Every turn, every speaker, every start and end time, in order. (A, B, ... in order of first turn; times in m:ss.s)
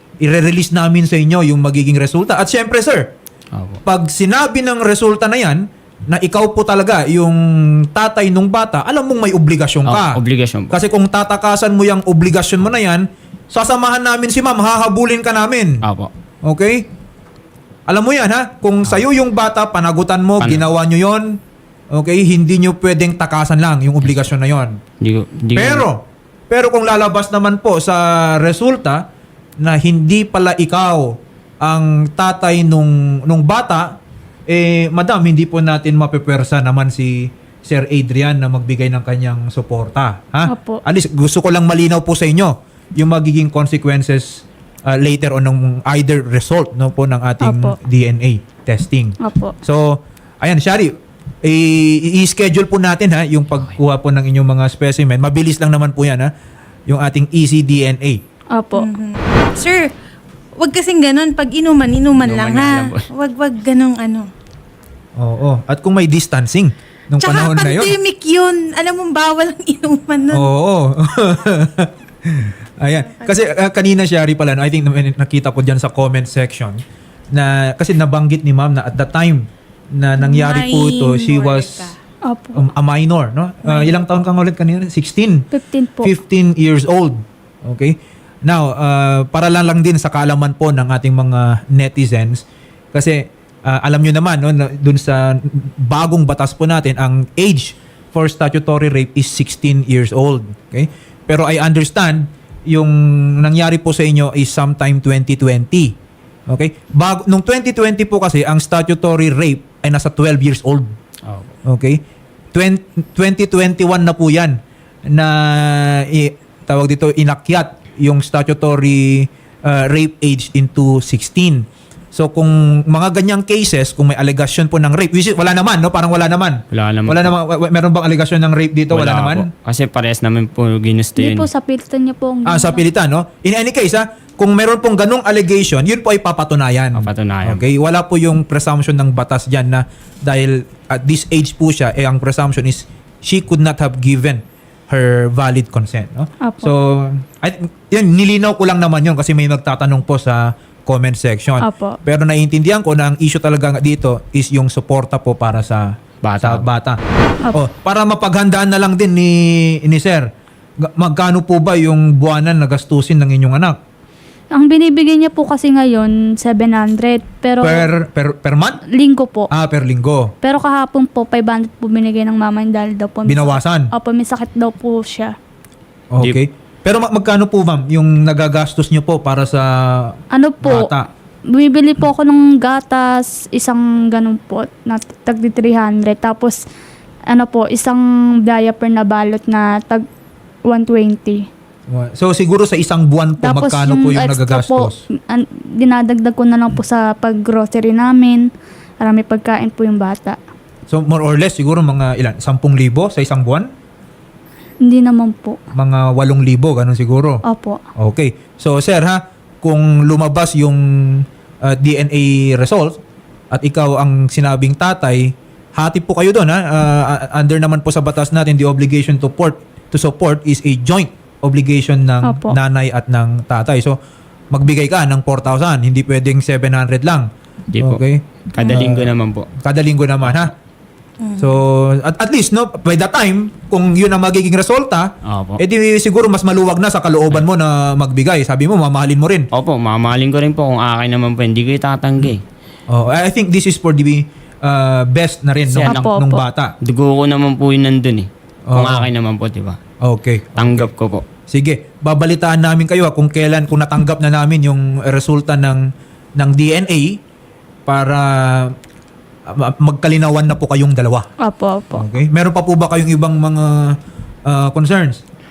0:00.2-0:03.1 A
0:03.8-0:15.8 A
0:09.8-0:10.8 B
0:15.8-0:16.1 B
0:16.4-0:16.8 A
0:17.9-0:21.4 A
0:21.9-0:24.8 A
0:25.0-0:25.8 B
0:25.5-0:29.0 A
0:29.6-0:34.0 A
0:34.5-0:50.9 A
0:40.5-0:40.8 C
0:47.4-0:47.8 C
0:49.2-0:49.5 C
0:51.4-0:56.3 A
0:56.9-0:58.2 A
0:58.5-0:58.9 C
0:58.7-0:59.9 D
1:00.6-1:04.3 D
1:02.2-1:03.1 B
1:05.2-1:07.9 A
1:07.2-1:10.5 D
1:10.3-1:16.8 A
1:17.3-1:21.9 A
1:20.2-1:22.0 D
1:22.2-1:22.7 C
1:22.5-1:25.4 A
1:23.6-1:23.9 D
1:25.5-1:26.1 C
1:26.0-1:32.4 A
1:32.9-1:45.9 A
1:46.5-1:50.9 A
1:51.2-1:51.5 B
1:51.6-1:52.0 A
1:52.5-2:09.5 A
2:06.7-2:07.3 B
2:08.9-2:11.5 B
2:11.2-2:12.8 C
2:12.4-2:37.0 A
2:17.0-2:17.6 B
2:26.4-2:26.7 C
2:31.6-2:32.0 C
2:36.2-2:36.7 B
2:37.5-2:40.3 A
2:40.8-2:43.8 A
2:44.5-2:47.9 C
2:47.6-2:48.8 A
2:48.9-2:49.5 C
2:49.5-2:50.3 A
2:50.4-2:55.3 C
2:53.2-2:53.9 A
2:56.1-3:01.1 A
3:00.3-3:00.9 C
3:01.5-3:06.6 C
3:07.3-3:10.0 C
3:10.7-3:11.5 C
3:11.9-3:15.0 A
3:13.4-3:18.4 C
3:19.0-3:20.4 C
3:20.9-3:23.7 A
3:24.8-3:25.6 C
3:25.7-3:27.4 A
3:27.4-3:27.8 C
3:28.0-3:33.0 A
3:33.5-3:44.0 A
3:42.2-3:42.6 C
3:44.5-3:47.3 A
3:47.7-3:48.0 B
3:47.8-3:50.5 A
3:48.5-3:49.5 B
3:50.2-3:50.5 B
3:51.2-3:51.5 D
3:51.4-3:59.5 A
3:55.2-3:55.6 B
3:59.5-4:02.4 B
4:02.9-4:06.7 A
4:05.7-4:06.0 B
4:05.8-4:06.4 C
4:06.8-4:09.8 B
4:08.7-4:09.1 A
4:10.0-4:10.9 A
4:10.6-4:11.2 B
4:11.5-4:15.8 A
4:16.4-4:17.2 A
4:17.9-4:18.7 A
4:19.5-4:21.3 A
4:21.4-4:22.1 C
4:21.9-4:23.9 A
4:24.4-4:25.2 A